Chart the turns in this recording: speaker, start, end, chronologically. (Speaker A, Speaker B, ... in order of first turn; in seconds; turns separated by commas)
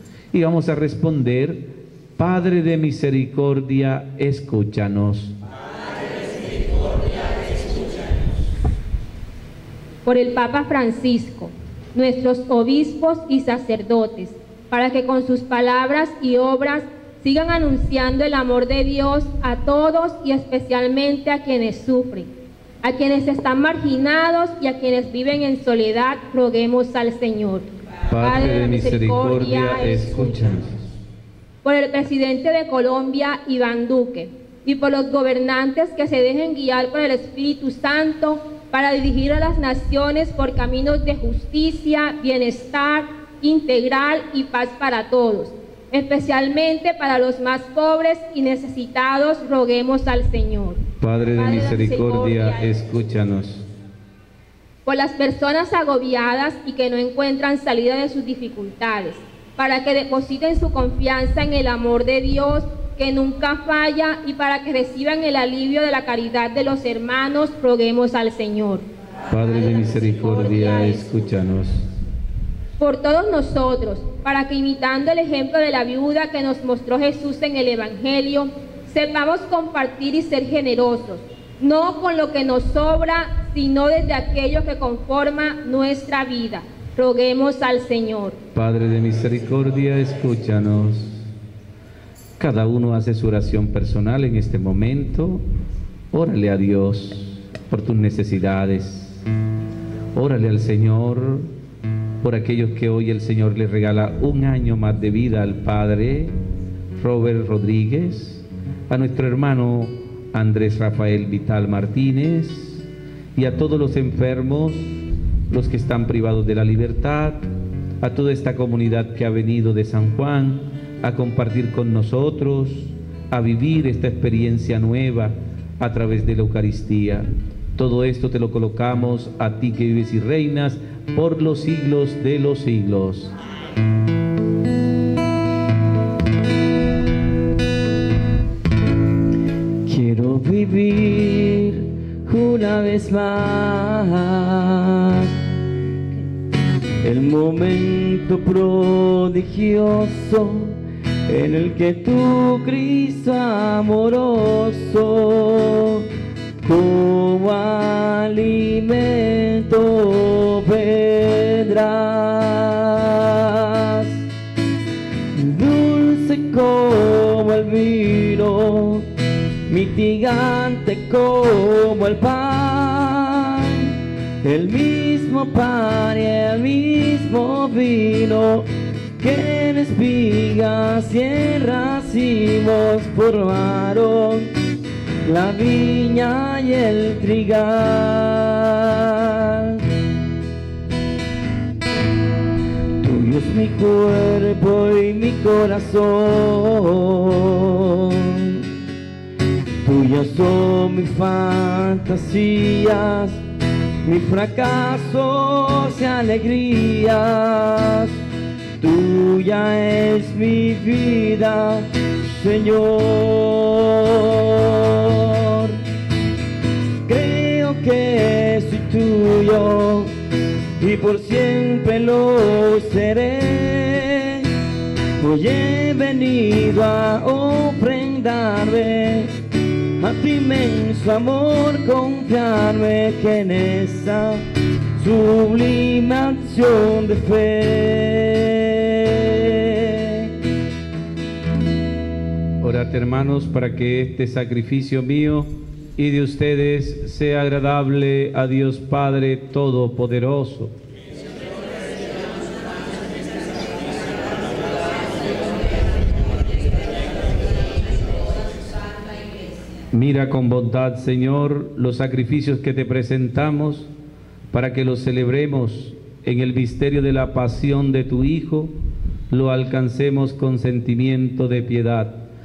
Speaker A: 0.3-5.4, Speaker B: 10.1-22.3, Speaker B: 22.8-27.7, Speaker A: 28.1-30.9, Speaker B: 28.2-30.6, Speaker B: 31.6-50.8, Speaker A: 51.0-53.6, Speaker B: 51.3-52.7, Speaker B: 54.9-68.8, Speaker A: 69.3-71.9, Speaker B: 70.2-71.0, Speaker B: 72.8-88.4, Speaker A: 88.5-91.3, Speaker A: 92.4-95.4, Speaker A: 96.1-99.2, Speaker A: 100.2-101.5, Speaker A: 102.2-106.3, Speaker A: 107.0-112.8, Speaker A: 113.3-114.9, Speaker A: 115.5-117.4, Speaker A: 118.0-133.3, Speaker C: 139.9-145.3, Speaker C: 147.0-156.1, Speaker C: 156.6-164.2, Speaker C: 165.3-169.1, Speaker C: 169.7-178.7, Speaker C: 179.2-184.5, Speaker C: 185.2-189.8, Speaker C: 193.0-198.7, Speaker C: 199.8-203.4, Speaker C: 204.1-208.1, Speaker C: 208.8-215.8, Speaker C: 217.1-220.1, Speaker C: 220.8-224.5, Speaker C: 225.2-229.3, Speaker C: 230.0-234.4, Speaker C: 235.0-240.3, Speaker A: 242.6-250.7, Speaker A: 259.9-263.9, Speaker A: 264.5-268.7, Speaker A: 269.3-272.2